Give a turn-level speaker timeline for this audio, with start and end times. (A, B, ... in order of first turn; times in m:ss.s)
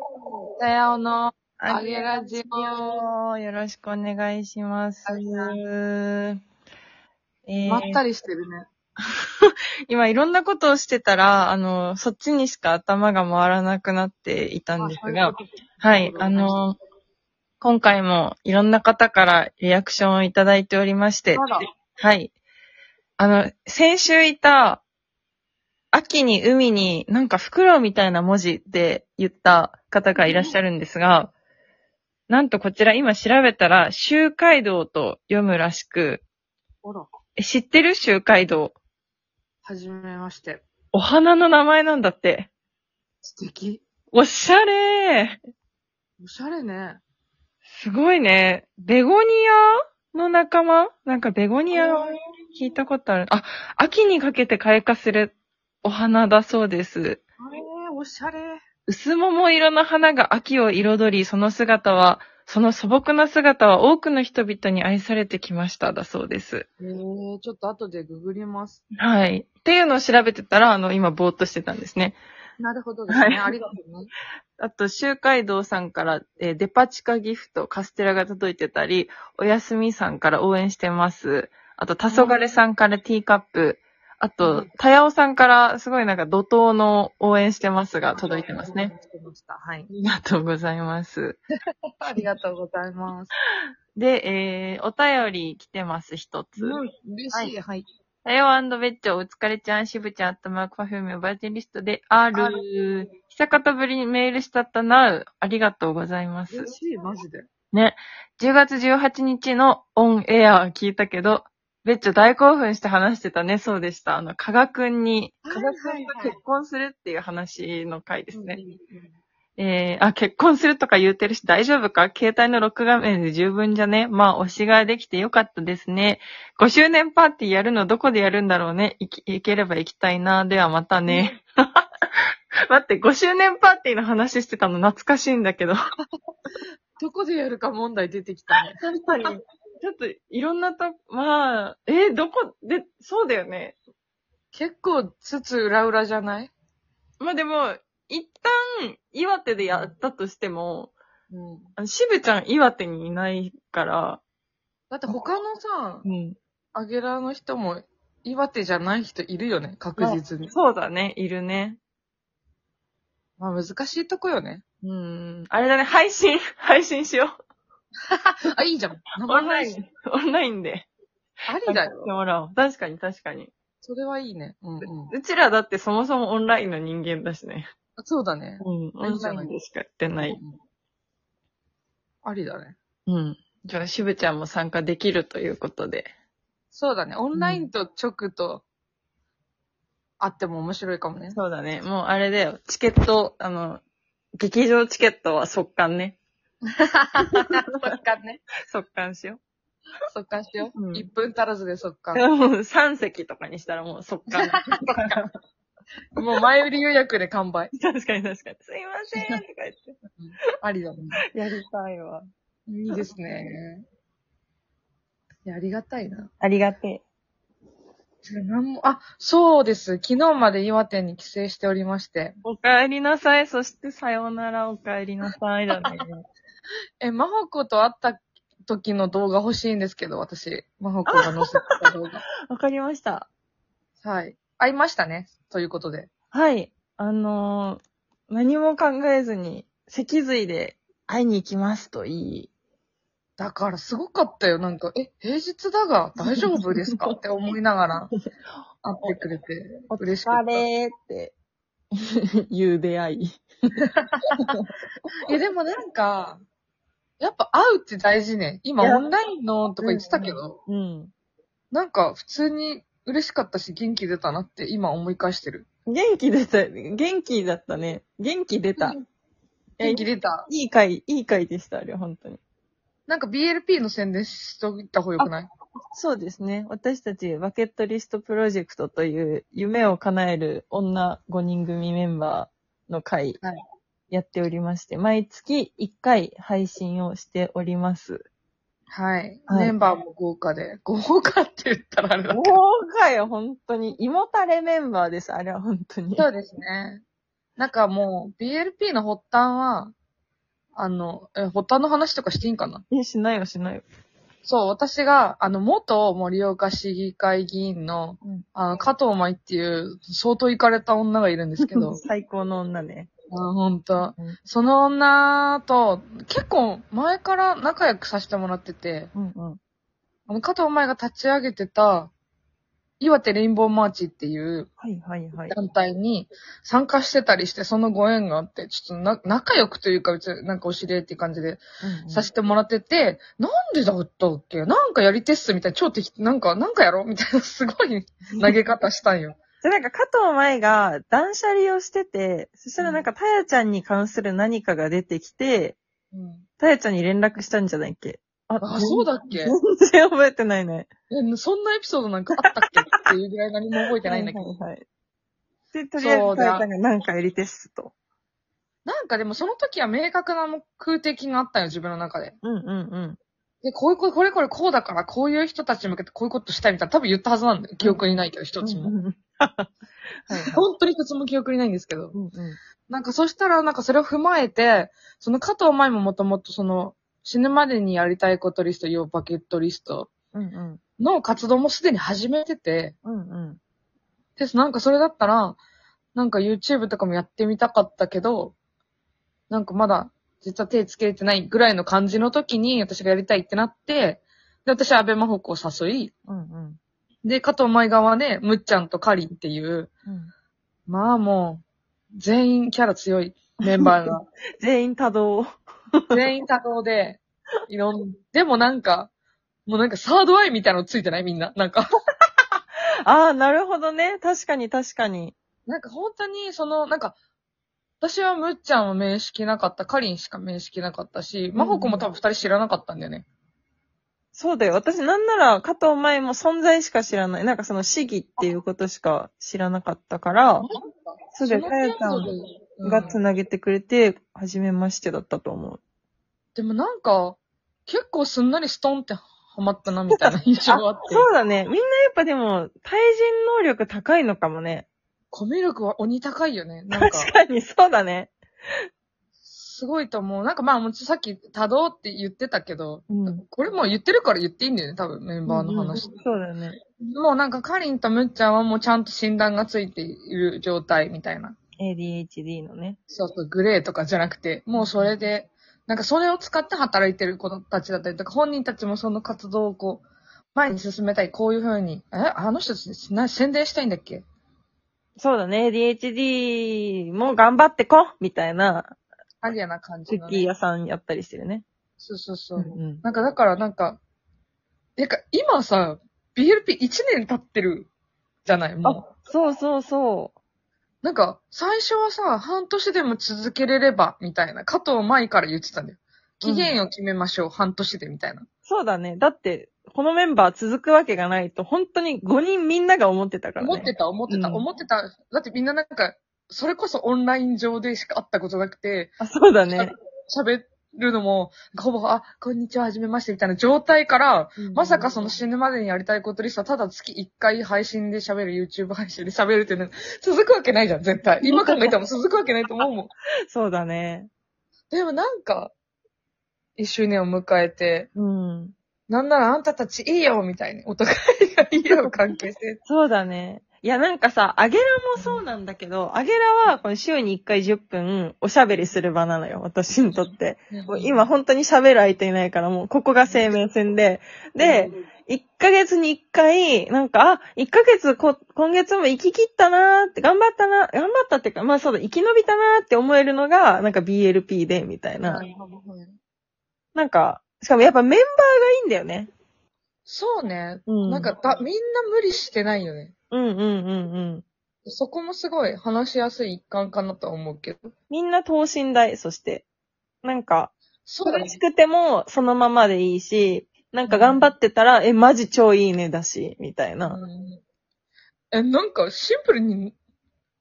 0:00.2-0:03.1 A
0:01.6-0:06.4 B
0:05.1-0:05.6 A
0:07.5-0:08.0 B
0:07.7-0:08.6 A
0:09.4-0:16.8 B
0:14.8-0:16.6 A
0:17.6-0:22.3 B
0:21.3-0:21.7 A
0:23.2-0:24.8 B
0:25.9-0:31.3 B
0:30.2-0:30.6 A
0:32.3-0:36.2 B
0:36.8-0:37.1 A
0:37.4-0:38.8 B
0:39.6-0:40.6 A
0:40.9-0:42.5 B
0:43.2-0:43.8 A
0:44.1-0:45.4 B
0:46.2-0:47.0 A
0:47.7-0:57.2 B
0:51.7-0:52.2 A
0:57.4-0:58.6 A
0:58.9-1:06.7 B
1:06.8-1:08.8 A
1:09.0-1:12.2 B
1:12.6-1:14.1 A
1:13.1-1:13.6 B
1:14.6-1:28.9 B
1:22.1-1:22.6 A
1:24.4-1:24.7 A
1:28.2-1:29.9 A
1:29.9-1:31.4 B
1:32.0-1:33.3 A
1:34.0-1:36.8 B
1:36.6-1:37.8 A
1:38.2-1:46.7 B
1:42.3-1:42.6 A
1:46.5-1:47.5 A
1:47.7-1:58.6 B
1:55.5-1:56.4 A
1:58.3-1:59.1 A
1:59.6-2:11.9 B
2:11.1-2:11.3 A
2:12.7-2:15.8 B
2:17.0-2:19.4 A
2:18.7-2:23.8 B
2:24.5-2:26.5 A
2:27.2-2:30.9 B
2:29.6-2:29.9 A
2:31.3-2:31.7 A
2:31.8-2:34.2 B
2:34.9-2:36.1 A
2:36.0-2:36.4 B
2:36.8-2:40.5 A
2:40.0-2:41.8 B
2:43.4-2:44.6 A
2:44.8-2:47.3 B
2:48.1-2:49.8 A
2:49.3-2:50.9 B
2:51.5-2:52.1 A
2:51.7-2:53.5 B
2:53.8-2:55.2 A
2:54.8-2:57.7 B
2:58.0-2:59.5 A
2:58.6-3:00.4 B
3:00.2-3:00.6 A
3:02.2-3:02.8 A
3:03.1-3:06.1 B
3:06.7-3:08.6 A
3:07.4-3:07.7 B
3:10.2-3:11.4 A
3:11.3-3:13.8 B
3:14.4-3:16.2 B
3:16.8-3:18.4 A
3:17.3-3:17.7 B
3:18.6-3:19.4 B
3:20.1-3:22.2 A
3:20.8-3:21.1 B
3:22.1-3:25.3 B
3:24.3-3:25.2 A
3:26.2-3:27.7 A
3:27.7-3:30.0 B
3:29.2-3:29.4 A
3:30.2-3:31.2 A
3:31.3-3:32.3 B
3:32.7-3:33.8 A
3:35.5-3:36.3 A
3:36.4-3:37.0 B
3:38.3-3:42.4 A
3:42.4-3:46.1 B
3:45.8-3:46.0 A
3:47.0-3:52.2 A
3:51.1-3:51.9 B
3:52.5-3:53.3 B
3:54.0-3:56.1 A
3:56.3-4:02.5 B
4:03.4-4:08.1 A
4:06.3-4:07.1 B
4:08.8-4:10.6 A
4:09.9-4:11.3 B
4:12.0-4:13.4 B
4:15.3-4:16.4 A
4:17.2-4:20.6 A
4:18.8-4:19.0 B
4:19.8-4:21.1 B
4:21.7-4:25.7 A
4:25.9-4:29.0 B
4:29.8-4:30.5 A
4:29.8-4:32.4 B
4:33.1-4:35.5 A
4:35.9-4:43.4 B
4:44.1-4:48.3 B
4:48.9-4:52.6 A
4:49.5-4:49.7 B
4:52.3-4:56.3 B
4:56.2-4:57.0 A
4:57.6-4:59.9 A
5:00.8-5:02.8 A
5:02.9-5:03.9 B
5:04.4-5:12.0 A
5:11.6-5:13.1 B
5:13.3-5:19.1 A
5:19.2-5:19.6 B
5:20.3-5:22.1 A
5:23.0-5:24.7 A
5:24.8-5:25.6 B
5:25.5-5:39.4 A
5:31.8-5:32.3 B
5:39.6-5:45.8 B
5:42.8-5:43.1 A
5:46.1-5:46.4 A
5:46.6-5:50.9 B
5:48.6-5:49.6 A
5:51.1-5:54.5 A
5:52.4-5:53.0 B
5:54.1-5:54.8 B
5:55.7-5:57.9 B
5:56.0-5:56.7 A
5:58.8-6:02.4 A
6:02.4-6:03.2 B
6:03.6-6:08.9 A
6:07.8-6:09.7 B
6:10.3-6:10.6 B
6:10.3-6:12.2 A
6:12.1-6:12.6 B
6:12.9-6:20.1 A
6:20.3-6:20.8 B
6:21.0-6:23.0 A
6:23.0-6:23.6 B
6:24.4-6:25.6 A
6:26.2-6:28.6 A
6:29.5-6:36.1 A
6:36.3-6:36.8 B
6:37.2-6:39.9 A
6:40.9-6:41.6 A
6:42.2-6:44.3 A
6:43.6-6:46.2 B
6:46.1-6:49.1 A
6:49.7-6:51.8 A
6:53.1-6:55.3 B
6:55.7-6:57.2 A
6:58.0-7:03.3 A
7:01.6-7:02.0 B
7:04.3-7:10.7 B
7:10.6-7:13.2 A
7:11.4-7:12.3 B
7:12.8-7:15.8 B
7:16.6-7:21.3 A
7:20.1-7:24.9 B
7:25.3-7:27.3 A
7:26.9-7:28.8 B
7:29.5-7:36.1 A
7:33.1-7:33.4 B
7:35.5-7:36.8 B
7:37.1-7:41.6 A
7:41.8-7:43.0 B
7:43.1-7:50.0 A
7:44.8-7:45.1 B
7:50.6-7:54.2 A
7:55.2-7:59.0 B
7:59.4-8:00.5 A
8:00.1-8:01.6 B
8:02.0-8:04.0 A
8:02.6-8:03.0 B
8:05.0-8:07.9 A
8:08.4-8:09.1 A
8:08.8-8:10.3 B
8:11.0-8:18.5 A
8:16.4-8:16.8 B
8:18.6-8:24.6 B
8:23.6-8:29.2 A
8:29.2-8:29.9 B
8:29.7-8:43.1 A
8:34.6-8:35.3 B
8:41.4-8:41.9 B
8:43.5-8:44.3 B
8:44.9-8:45.7 A
8:46.8-8:48.1 A
8:48.2-8:48.7 B
8:49.1-8:52.8 A
8:51.8-9:15.4 B
8:55.2-8:55.4 A
9:00.7-9:01.3 A
9:03.3-9:03.5 A
9:04.6-9:04.9 A
9:15.2-9:16.2 A
9:17.0-9:19.3 B
9:20.1-9:23.1 A
9:20.9-9:21.3 B
9:23.3-9:24.4 B
9:24.8-9:27.9 A
9:28.1-9:29.7 B
9:30.2-9:37.2 B
9:31.1-9:31.6 A
9:34.1-9:34.4 A
9:37.0-9:37.6 A
9:38.5-9:40.0 A